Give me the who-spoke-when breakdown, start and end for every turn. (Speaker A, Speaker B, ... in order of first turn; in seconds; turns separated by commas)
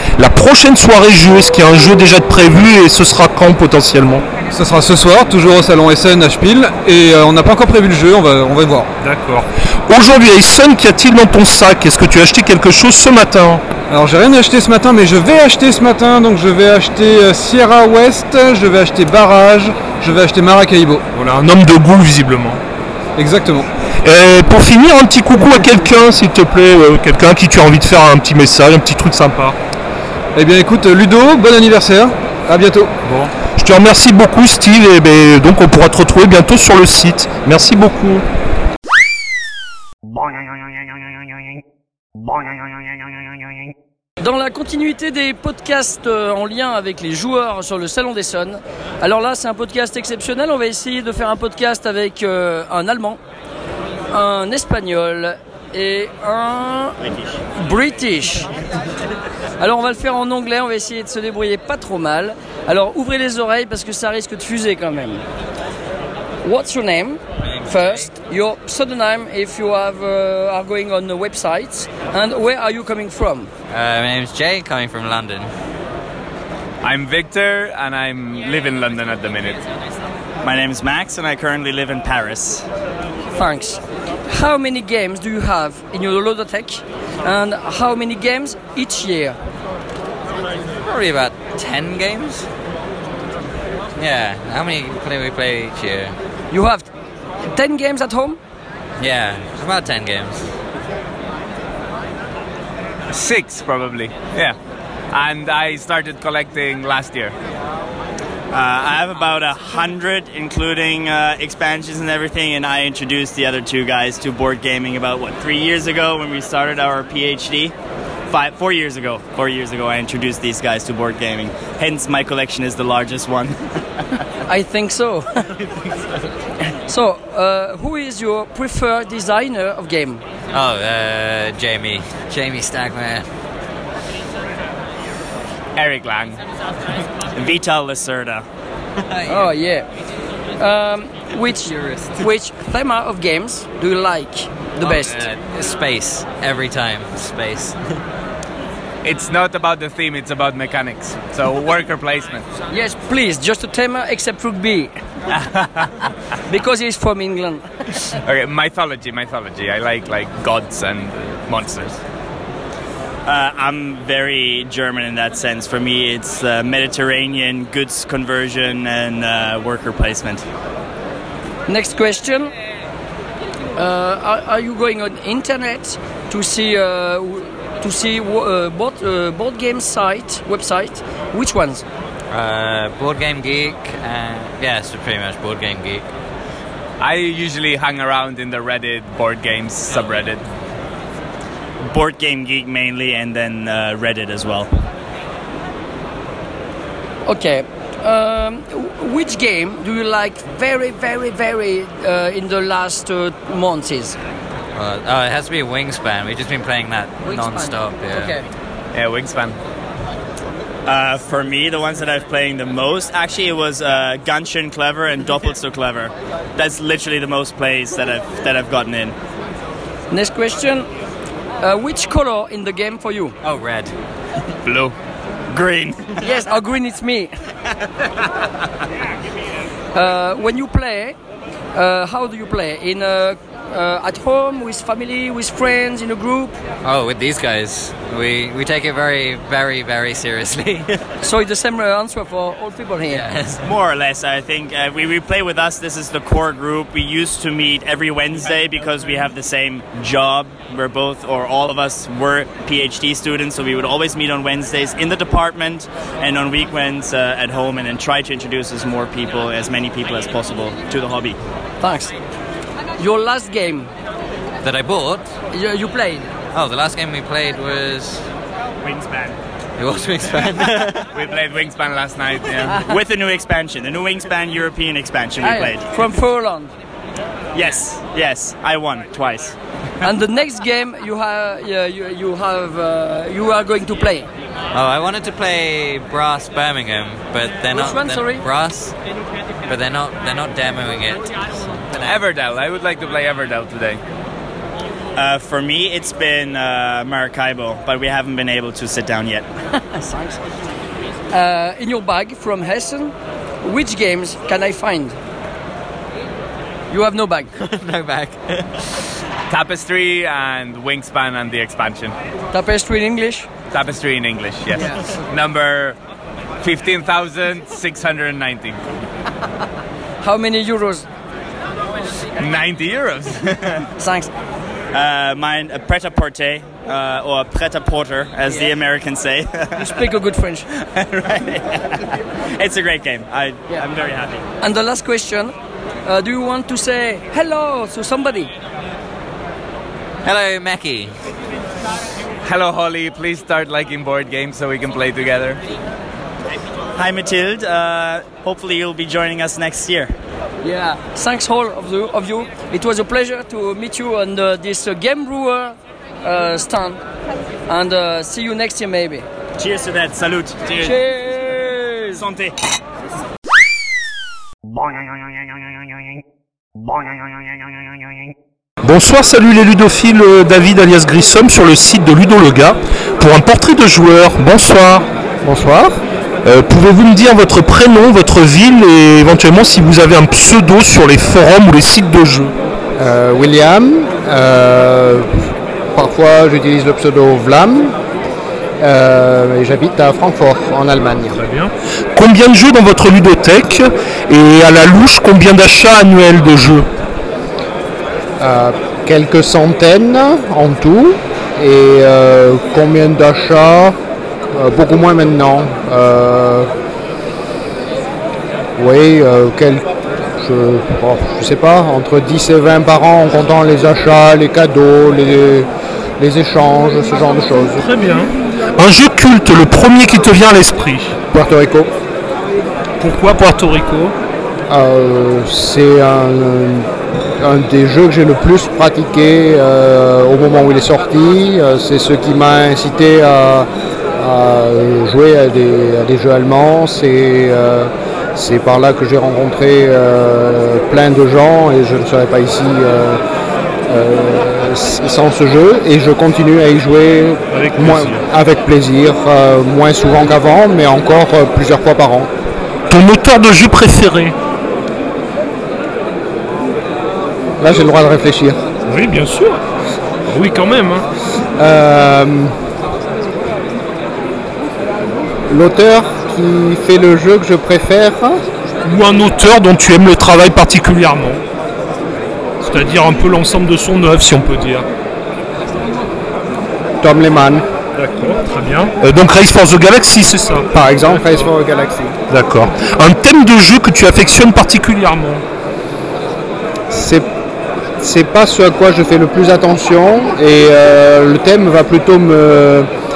Speaker A: 0.1-4.2, Speaker B: 4.5-8.9, Speaker C: 9.0-9.5, Speaker A: 9.9-13.6, Speaker B: 13.9-21.2, Speaker A: 21.2-22.6, Speaker B: 23.1-23.7, Speaker A: 24.0-29.6, Speaker B: 30.3-32.9, Speaker C: 33.0-33.3, Speaker A: 33.6-38.2, Speaker D: 44.2-53.2, Speaker D: 54.1-57.0, Speaker E: 57.0-57.3, Speaker D: 57.5-58.5, Speaker D: 59.6-65.2, Speaker D: 66.4-73.5, Speaker F: 67.5-68.1, Speaker F: 73.7-75.5, Speaker G: 76.8-79.7, Speaker E: 80.4-82.6, Speaker D: 83.3-89.4, Speaker F: 90.8-92.5, Speaker F: 94.0-96.1, Speaker D: 96.5-96.9, Speaker D: 97.5-98.4, Speaker F: 99.0-100.5, Speaker G: 103.1-104.6, Speaker G: 105.1-107.3, Speaker E: 108.5-117.7, Speaker E: 118.3-124.0, Speaker D: 124.5-125.5, Speaker D: 126.7-130.2, Speaker F: 130.5-133.3, Speaker G: 135.8-136.4, Speaker E: 137.3-138.4, Speaker F: 139.1-139.4, Speaker D: 139.3-139.8, Speaker D: 140.6-145.2, Speaker F: 144.8-147.8, Speaker G: 149.0-152.4, Speaker D: 152.7-154.9, Speaker G: 155.3-155.9, Speaker D: 156.5-157.6, Speaker G: 158.2-162.0, Speaker E: 163.2-170.4, Speaker D: 171.7-172.5, Speaker D: 173.8-181.8, Speaker F: 182.3-186.0, Speaker G: 187.0-190.4, Speaker E: 191.9-194.7, Speaker D: 197.2-204.2, Speaker F: 204.7-208.3, Speaker D: 207.2-208.4, Speaker G: 208.9-209.6, Speaker E: 210.9-219.1, Speaker D: 220.1-220.9, Speaker D: 221.6-223.3, Speaker F: 223.4-223.9, Speaker E: 224.6-224.9, Speaker E: 225.5-226.2, Speaker D: 226.2-227.3, Speaker D: 229.9-231.2, Speaker D: 231.7-236.6, Speaker F: 236.8-240.9, Speaker D: 241.2-243.3, Speaker F: 243.1-243.6, Speaker E: 243.6-261.4, Speaker D: 261.8-262.1, Speaker D: 263.0-263.9, Speaker F: 264.6-265.3, Speaker D: 265.5-266.3, Speaker F: 266.5-268.2, Speaker E: 268.8-269.4, Speaker F: 269.8-271.1, Speaker G: 271.0-272.8, Speaker E: 272.8-275.9, Speaker D: 275.4-276.7, Speaker E: 277.5-279.6, Speaker D: 280.0-284.3, Speaker F: 284.7-288.9, Speaker D: 287.7-288.4, Speaker F: 289.7-292.3, Speaker G: 292.0-294.0, Speaker E: 295.1-299.4, Speaker D: 299.9-300.4, Speaker D: 301.3-305.1, Speaker D: 306.9-307.5, Speaker F: 307.6-308.6, Speaker G: 309.5-312.1, Speaker D: 312.5-313.5, Speaker G: 313.7-316.0, Speaker G: 316.6-318.8, Speaker D: 320.2-321.0, Speaker G: 322.4-323.8, Speaker D: 324.0-324.3, Speaker E: 324.9-329.9, Speaker D: 329.8-330.6, Speaker E: 330.8-334.4, Speaker D: 334.6-335.5, Speaker D: 336.1-338.5, Speaker F: 340.2-341.1, Speaker G: 342.4-345.6, Speaker E: 346.9-350.1, Speaker D: 350.6-357.0, Speaker D: 357.7-359.2, Speaker E: 359.6-360.9, Speaker D: 360.8-362.2, Speaker E: 362.1-362.6, Speaker A: 368.8-375.1, Speaker H: 375.4-376.0, Speaker A: 376.4-382.5, Speaker H: 383.0-385.3, Speaker H: 385.9-387.9, Speaker H: 388.8-391.4, Speaker C: 391.4-391.7, Speaker A: 392.1-396.9, Speaker H: 398.4-404.0, Speaker H: 404.5-406.7, Speaker H: 408.8-409.8, Speaker H: 410.4-417.9, Speaker C: 417.8-418.4, Speaker A: 418.8-421.1, Speaker H: 421.3-421.9, Speaker C: 423.0-424.1, Speaker H: 424.7-443.2, Speaker H: 443.9-452.3, Speaker C: 447.5-448.2, Speaker A: 452.9-454.4, Speaker H: 457.6-458.6, Speaker C: 458.9-459.6, Speaker C: 460.3-461.1, Speaker H: 461.6-462.5, Speaker H: 465.5-468.4, Speaker C: 468.9-469.5, Speaker A: 468.9-471.4, Speaker C: 472.6-474.9, Speaker H: 477.0-477.6, Speaker C: 477.9-478.9, Speaker A: 479.0-480.6, Speaker C: 480.5-481.5, Speaker H: 480.7-482.1, Speaker A: 482.3-485.4, Speaker C: 485.1-485.4, Speaker H: 486.9-487.3, Speaker H: 488.0-492.9